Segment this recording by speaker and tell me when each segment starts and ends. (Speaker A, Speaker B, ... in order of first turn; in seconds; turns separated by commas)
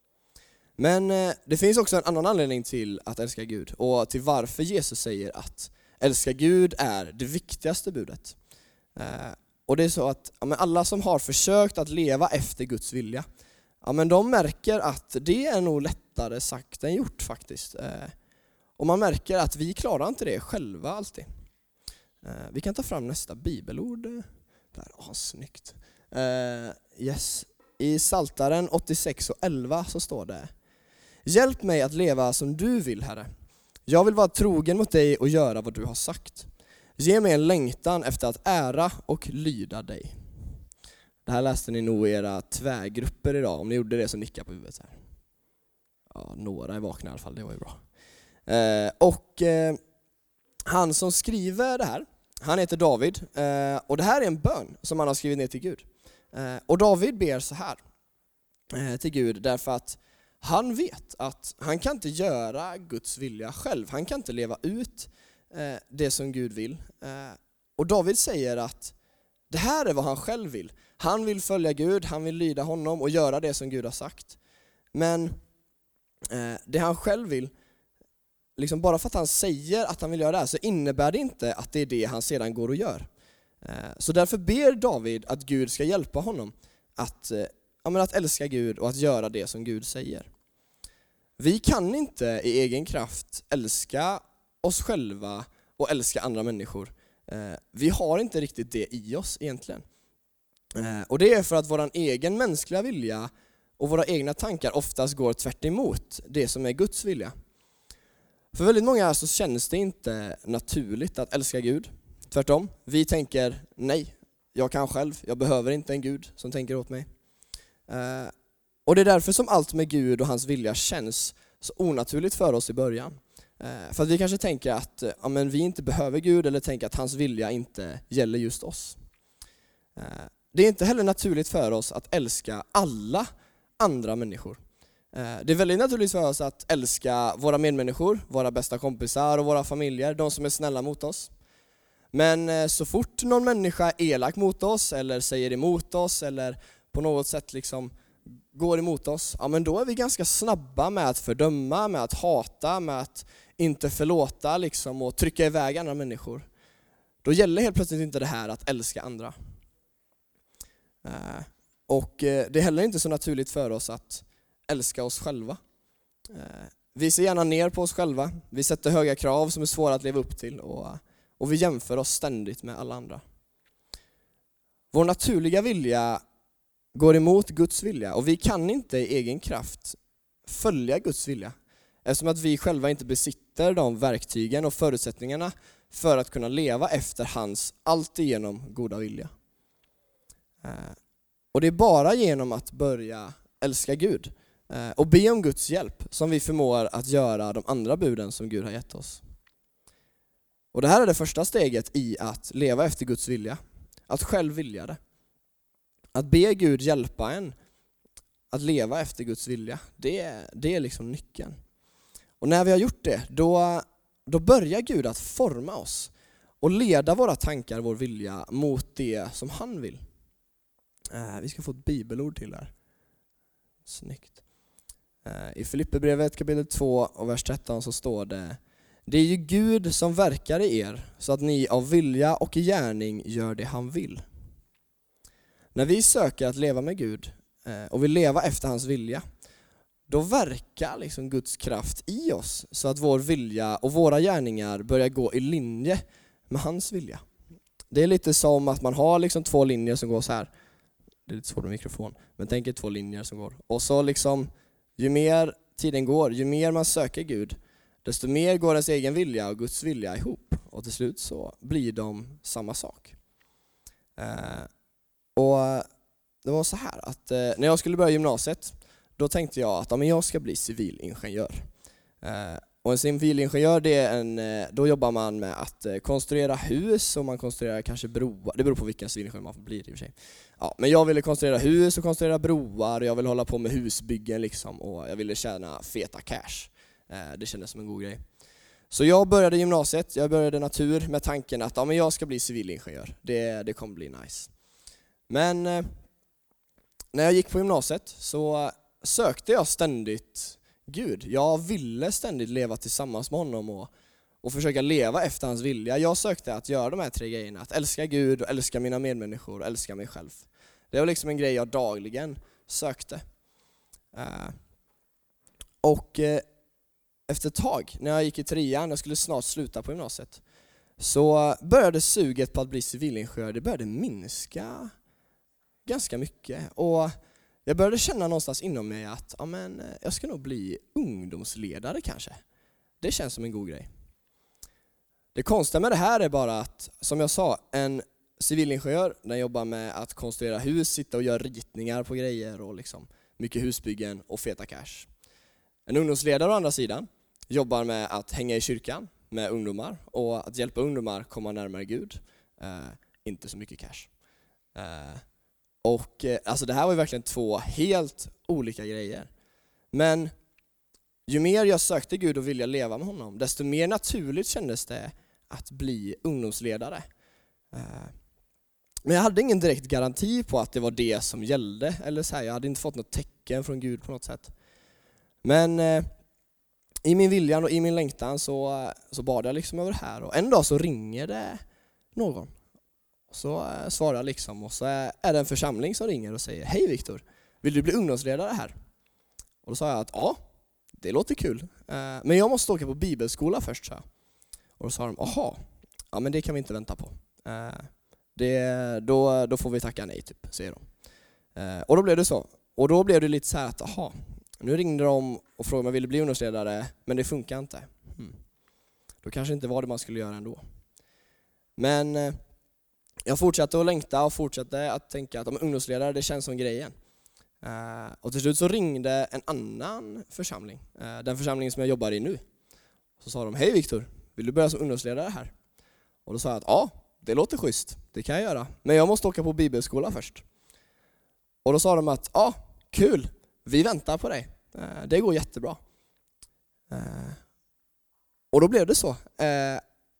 Speaker A: 0.8-8.3, Speaker A: 8.9-13.2, Speaker A: 13.8-18.1, Speaker A: 18.8-21.2, Speaker A: 22.2-30.5, Speaker A: 31.2-33.3, Speaker A: 33.9-40.1, Speaker A: 41.2-45.0, Speaker A: 46.1-47.8, Speaker A: 48.5-49.8, Speaker A: 50.7-57.8, Speaker A: 58.7-68.9, Speaker A: 69.5-74.3, Speaker A: 74.9-75.4, Speaker A: 76.3-77.5, Speaker A: 78.6-83.1, Speaker A: 83.6-90.3, Speaker A: 91.4-99.8, Speaker A: 100.7-107.3, Speaker A: 108.5-117.1, Speaker A: 117.9-118.3, Speaker A: 118.8-129.0, Speaker A: 129.9-133.3, Speaker A: 133.8-134.6, Speaker A: 135.1-141.3, Speaker A: 142.1-147.9, Speaker A: 148.5-156.5, Speaker A: 157.2-159.3, Speaker A: 161.0-165.6, Speaker A: 166.3-173.2, Speaker A: 174.9-176.2, Speaker A: 176.9-181.5, Speaker A: 182.0-189.3, Speaker A: 190.6-191.0, Speaker A: 191.5-199.2, Speaker A: 200.7-205.0, Speaker A: 206.1-207.5, Speaker A: 208.5-211.6, Speaker A: 212.4-220.0, Speaker A: 221.1-222.7, Speaker A: 223.8-224.3, Speaker A: 225.2-234.2, Speaker A: 235.7-239.2, Speaker A: 240.1-247.2, Speaker A: 247.9-250.5, Speaker A: 251.3-263.1, Speaker A: 264.2-264.7, Speaker A: 265.4-265.9, Speaker A: 266.4-271.6, Speaker A: 272.2-288.2, Speaker A: 288.9-294.5, Speaker A: 295.3-295.9, Speaker A: 297.1-303.9, Speaker A: 304.4-313.2, Speaker A: 314.1-314.6, Speaker A: 315.8-316.4, Speaker A: 317.3-320.4, Speaker A: 321.0-324.9, Speaker A: 325.9-327.1, Speaker A: 327.6-332.4, Speaker A: 333.0-333.9, Speaker A: 335.3-345.1, Speaker A: 345.9-354.1, Speaker A: 354.7-355.2, Speaker A: 355.8-359.3, Speaker A: 359.9-360.3, Speaker A: 361.3-367.0, Speaker A: 367.7-368.1, Speaker A: 369.1-374.5, Speaker A: 375.4-376.1, Speaker A: 377.1-381.6, Speaker A: 382.1-382.5, Speaker A: 383.3-388.7, Speaker A: 389.6-390.4, Speaker A: 390.9-394.0, Speaker A: 394.8-395.6, Speaker A: 396.1-400.9, Speaker A: 401.6-408.4, Speaker A: 409.2-410.6, Speaker A: 411.8-412.4, Speaker A: 413.3-416.9, Speaker A: 417.6-422.4, Speaker A: 423.2-425.5, Speaker A: 426.2-430.4, Speaker A: 431.6-435.8, Speaker A: 436.9-437.4, Speaker A: 438.5-439.8